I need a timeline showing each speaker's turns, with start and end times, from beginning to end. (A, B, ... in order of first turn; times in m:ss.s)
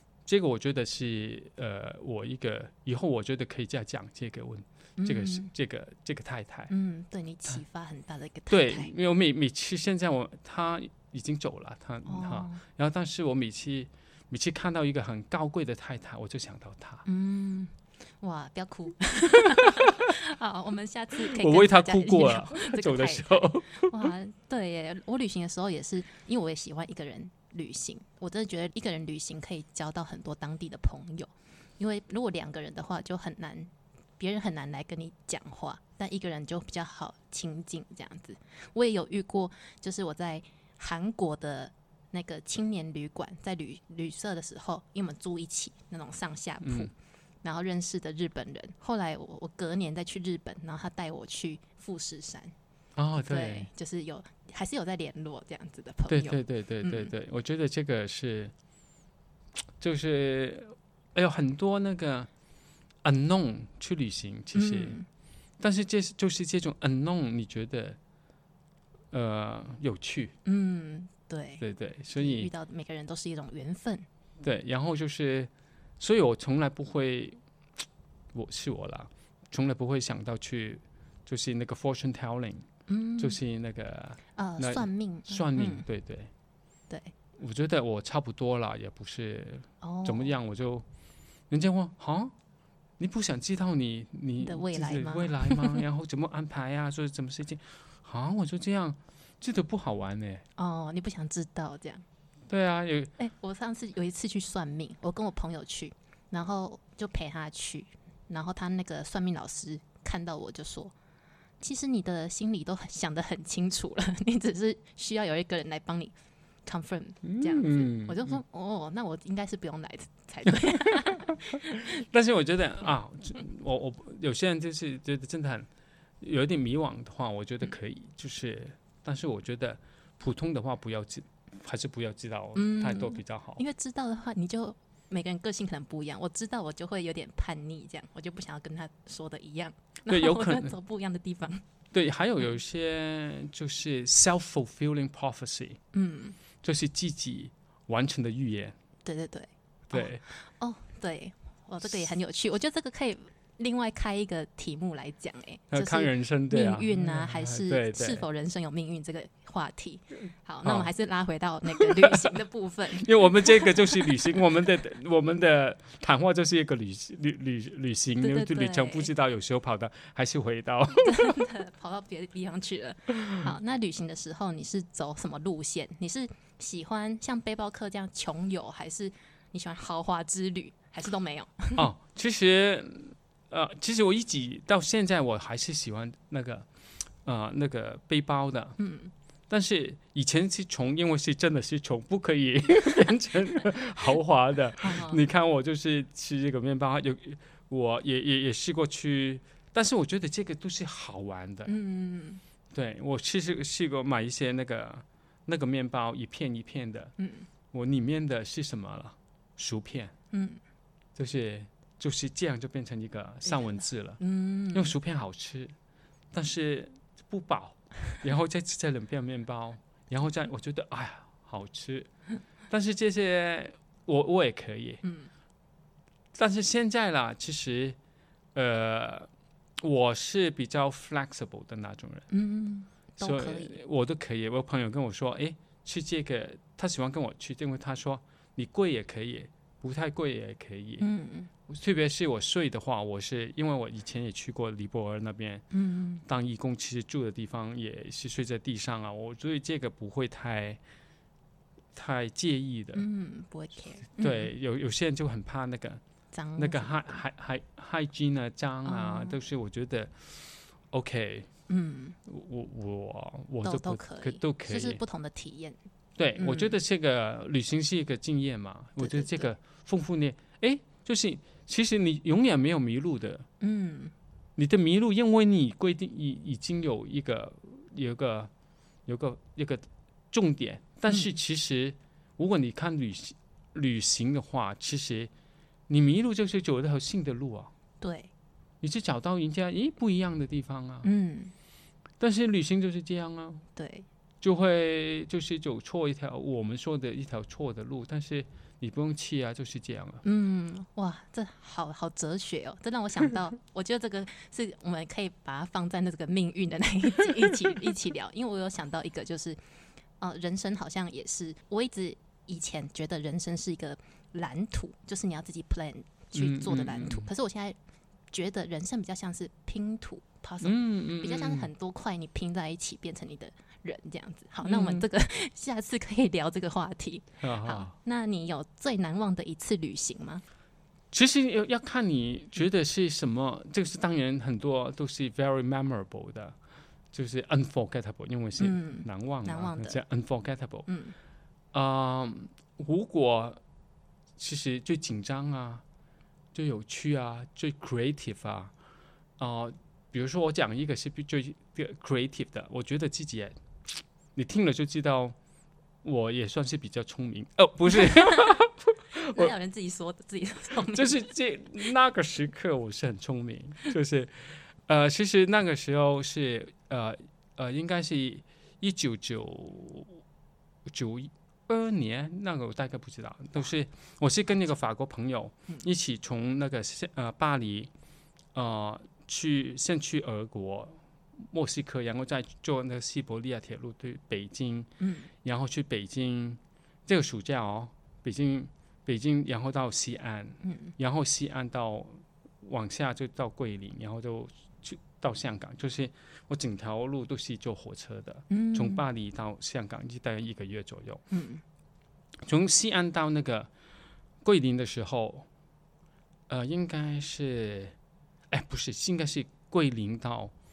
0:00.2-0:06.7 A
0:05.0-0:05.5 B
0:06.7-0:08.9 B
0:08.5-0:17.0 A
0:12.0-0:12.6 B
0:17.0-0:46.9 B
0:19.6-0:19.8 A
0:21.2-0:24.1 A
0:46.6-0:46.9 A
0:47.4-0:52.5 B
0:53.0-0:53.7 A
0:53.3-0:57.1 B
0:56.1-0:58.5 A
0:59.8-1:02.3 A
1:03.0-1:05.0 A
1:04.5-1:05.1 B
1:05.6-1:08.0 A
1:09.1-1:10.4 A
1:10.4-1:11.6 B
1:11.6-1:12.5 A
1:12.2-1:14.1 B
1:14.4-1:17.4 A
1:18.3-1:26.3 A
1:22.9-1:23.4 B
1:24.3-1:25.8 B
1:27.4-1:30.8 A
1:29.8-1:30.3 B
1:31.5-1:32.3 A
1:33.0-1:40.4 A
1:34.4-1:35.8 B
1:40.6-1:42.0 B
1:42.5-1:43.1 A
1:43.2-1:50.9 B
1:51.6-1:56.1 B
1:56.6-2:01.9 B
1:57.2-1:58.4 A
2:00.5-2:05.7 A
2:06.2-2:13.6 A
2:12.5-2:21.6 B
2:20.1-2:20.7 A
2:21.9-2:25.8 A
2:25.9-2:26.4 B
2:26.6-2:28.7 A
2:29.0-2:44.3 B
2:29.9-2:30.2 A
2:35.7-2:38.2 A
2:40.6-2:40.9 A
2:41.7-2:42.3 A
2:42.9-2:51.4 A
2:48.2-2:49.1 B
2:51.0-3:01.9 B
3:01.8-3:06.7 A
3:07.2-3:08.8 A
3:08.8-3:09.1 B
3:09.5-3:21.7 A
3:14.8-3:15.2 B
3:21.6-3:22.4 B
3:22.7-3:27.1 A
3:27.2-3:27.5 B
3:27.7-3:30.1 A
3:30.3-3:30.6 B
3:31.2-3:34.2 A
3:33.5-3:34.9 B
3:34.7-3:35.7 A
3:36.3-3:42.1 A
3:42.7-3:45.0 A
3:45.0-3:45.3 B
3:46.3-3:48.0 A
3:48.5-3:49.3 A
3:49.8-3:52.3 A
3:52.3-3:53.8 B
3:53.2-4:01.0 A
4:01.0-4:01.5 B
4:01.7-4:05.6 A
4:05.7-4:06.2 B
4:06.2-4:10.8 A
4:11.9-4:13.0 A
4:12.9-4:14.5 B
4:14.2-4:16.0 A
4:16.3-4:17.2 B
4:16.6-4:21.5 A
4:18.8-4:19.4 B
4:21.7-4:22.2 B
4:22.2-4:25.0 A
4:23.6-4:25.8 B
4:26.2-4:33.5 A
4:26.4-4:26.7 B
4:29.0-4:29.5 B
4:33.6-4:34.1 B
4:34.6-4:38.5 A
4:39.1-4:45.3 A
4:41.1-4:41.3 B
4:45.9-4:47.7 A
4:48.0-4:48.3 B
4:48.8-4:51.1 A
4:51.0-4:51.5 B
4:52.2-4:53.6 A
4:53.8-4:54.0 B
4:54.4-5:00.2 A
5:00.2-5:09.6 B
5:10.2-5:17.8 B
5:16.3-5:17.3 A
5:18.3-5:30.4 B
5:20.6-5:21.7 A
5:24.6-5:25.0 A
5:27.4-5:27.9 A
5:31.1-5:36.6 A
5:37.1-5:40.9 A
5:38.6-5:40.0 B
5:40.9-5:41.1 B
5:41.7-5:43.6 A
5:44.4-5:45.8 A
5:46.5-5:48.7 A
5:49.4-5:53.6 A
5:54.3-5:55.4 A
5:56.0-5:59.5 A
5:57.9-5:58.6 B
5:59.3-6:01.3 B
6:00.9-6:10.2 A
6:10.9-6:17.9 A
6:18.5-6:24.9 A
6:25.0-6:25.3 B
6:25.4-6:41.2 A
6:30.6-6:30.9 B
6:38.5-6:39.0 B
6:41.3-6:41.6 B
6:42.4-6:43.7 A
6:44.4-6:45.4 A
6:46.5-6:47.9 A
6:48.5-6:50.5 A